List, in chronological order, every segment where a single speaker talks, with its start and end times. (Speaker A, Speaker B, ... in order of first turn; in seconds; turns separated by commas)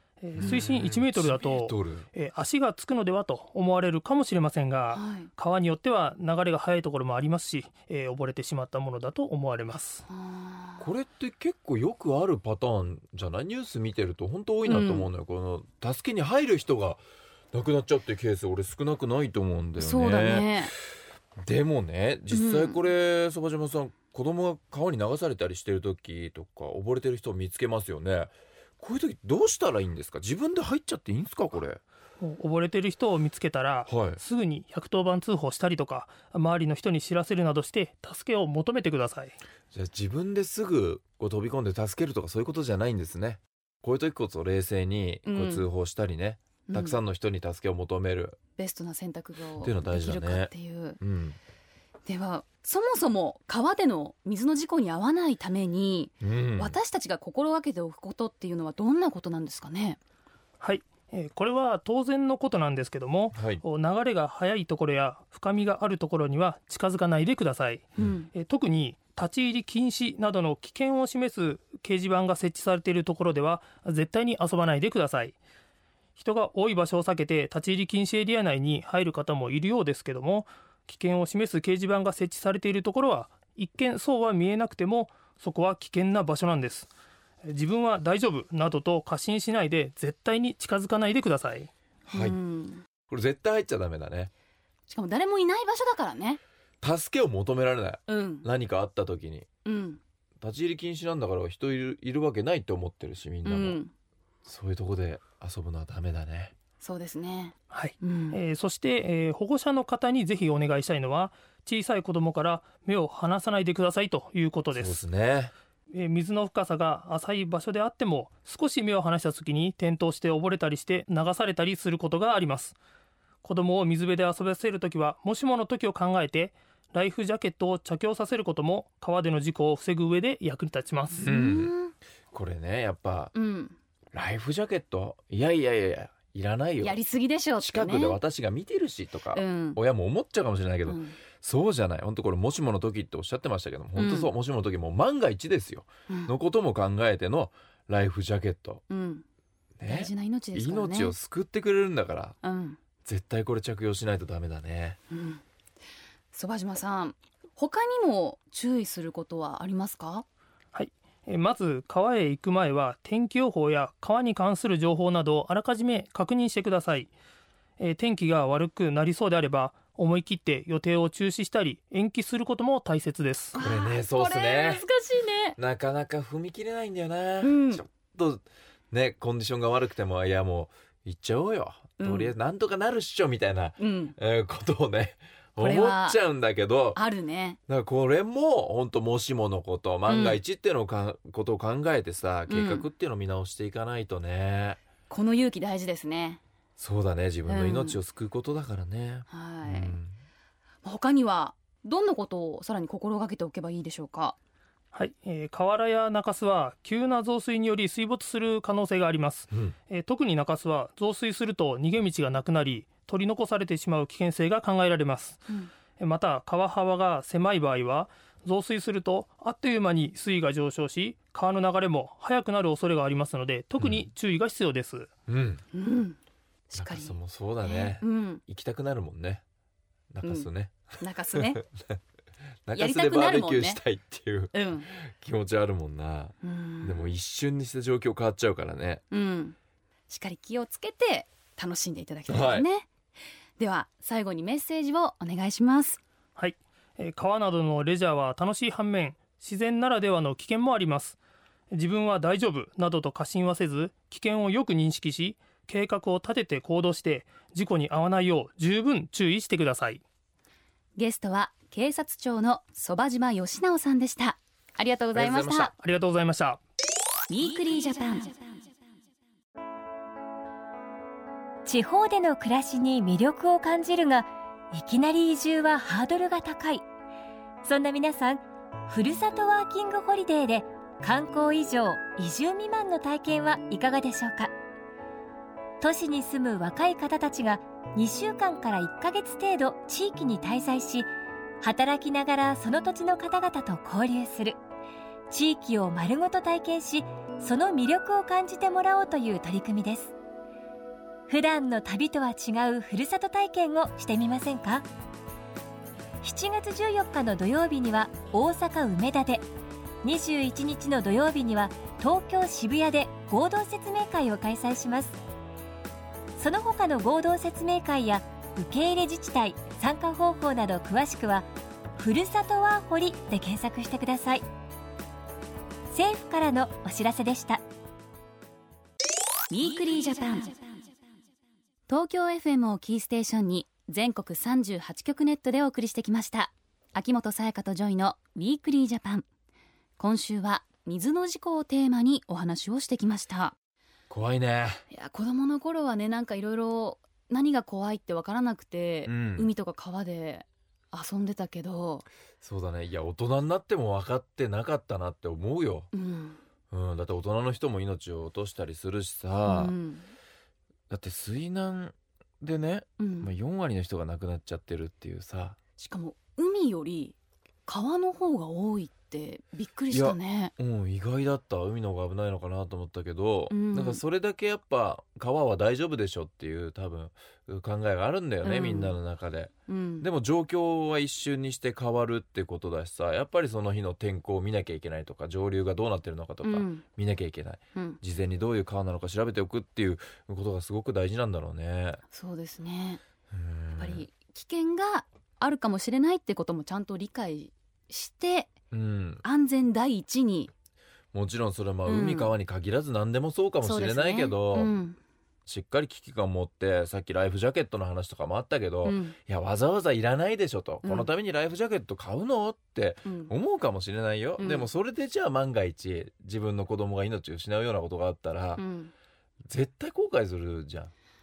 Speaker A: 0.2-10.0, Speaker B: 0.3-2.1, Speaker C: 4.9-5.3, Speaker C: 10.1-10.9, Speaker B: 10.8-20.5, Speaker C: 14.6-15.1, Speaker C: 19.8-20.7, Speaker B: 21.4-31.8, Speaker C: 22.3-22.8, Speaker A: 32.2-39.4, Speaker B: 33.9-34.2, Speaker B: 39.7-48.4, Speaker C: 45.2-45.6, Speaker C: 46.7-47.0, Speaker C: 48.6-51.0, Speaker B: 49.6-51.4, Speaker C: 52.0-60.0, Speaker B: 56.2-56.8, Speaker A: 60.6-75.3, Speaker B: 63.3-63.6, Speaker C: 68.0-68.3, Speaker A: 76.2-86.9, Speaker A: 87.4-91.7, Speaker B: 92.1-92.4, Speaker C: 92.1-92.8, Speaker B: 93.1-94.3, Speaker C: 94.9-96.4, Speaker B: 96.8-99.5, Speaker C: 98.1-98.5, Speaker C: 99.6-100.0, Speaker B: 100.4-103.8, Speaker C: 103.4-103.9, Speaker B: 104.4-106.5, Speaker C: 106.8-108.4, Speaker A: 107.7-115.0, Speaker B: 114.7-115.5, Speaker A: 115.9-122.8, Speaker A: 123.4-131.2, Speaker C: 131.1-131.9, Speaker B: 131.2-131.7, Speaker B: 132.3-133.3, Speaker C: 133.3-133.8, Speaker B: 134.1-136.9, Speaker C: 136.8-138.2, Speaker B: 137.6-148.8, Speaker C: 139.3-139.8, Speaker C: 140.8-141.2, Speaker C: 143.9-144.3, Speaker C: 148.9-149.2, Speaker B: 149.8-152.3, Speaker C: 149.9-151.1, Speaker C: 152.4-152.8, Speaker B: 153.0-155.0, Speaker C: 155.1-155.4, Speaker C: 156.3-160.2, Speaker A: 160.7-167.1, Speaker A: 167.8-173.6, Speaker C: 173.5-175.6, Speaker B: 173.6-174.8, Speaker B: 175.6-187.0, Speaker C: 177.4-177.8, Speaker C: 182.0-182.3, Speaker C: 183.8-184.1, Speaker C: 185.6-186.2, Speaker C: 186.9-187.6, Speaker B: 187.7-194.8, Speaker C: 190.1-190.4, Speaker C: 192.5-192.8, Speaker C: 195.1-196.4, Speaker B: 196.8-200.1, Speaker C: 197.5-198.0, Speaker C: 199.3-199.9, Speaker C: 200.8-204.4, Speaker A: 204.9-215.4, Speaker A: 216.0-225.1, Speaker B: 223.8-224.1, Speaker B: 225.3-225.6, Speaker C: 225.7-226.2, Speaker C: 226.7-228.4, Speaker B: 226.8-229.4, Speaker B: 230.1-232.0, Speaker C: 230.2-231.6, Speaker B: 232.7-239.0, Speaker C: 232.7-233.8, Speaker C: 234.5-234.9, Speaker C: 236.4-237.1, Speaker C: 239.1-239.6, Speaker C: 240.1-242.9, Speaker B: 242.3-242.7, Speaker C: 243.6-246.0, Speaker A: 246.3-251.2, Speaker A: 251.7-260.0, Speaker C: 261.0-265.7, Speaker B: 265.1-265.7, Speaker A: 265.8-266.6, Speaker C: 267.3-268.3, Speaker D: 271.6-276.8, Speaker D: 277.6-284.5, Speaker D: 285.8-291.1, Speaker D: 291.6-294.6, Speaker D: 295.3-300.1, Speaker D: 301.3-304.9, Speaker D: 306.2-309.4, Speaker D: 310.0-315.2, Speaker D: 316.4-324.4, Speaker D: 325.9-327.6, Speaker C: 329.5-330.5, Speaker C: 331.9-339.2, Speaker C: 340.0-343.5, Speaker B: 344.1-344.8, Speaker C: 344.9-352.1, Speaker B: 349.1-349.5, Speaker B: 352.4-355.9, Speaker C: 355.9-356.4, Speaker B: 356.7-359.7, Speaker C: 359.4-360.1, Speaker B: 360.9-365.6, Speaker C: 363.0-363.3, Speaker C: 365.8-367.1, Speaker C: 367.6-370.5, Speaker B: 369.9-392.0, Speaker C: 373.5-374.0, Speaker C: 378.4-379.0, Speaker C: 379.7-380.1, Speaker C: 386.4-386.8, Speaker C: 392.1-393.0, Speaker B: 393.3-394.0, Speaker C: 393.8-398.5, Speaker B: 398.7-399.2, Speaker C: 399.2-400.5, Speaker B: 401.1-404.7, Speaker C: 401.9-402.3, Speaker C: 403.6-405.0, Speaker B: 405.5-418.6, Speaker C: 408.8-409.1, Speaker C: 410.8-411.1, Speaker C: 413.1-413.3, Speaker C: 414.4-414.7, Speaker C: 418.6-418.9, Speaker B: 419.5-420.9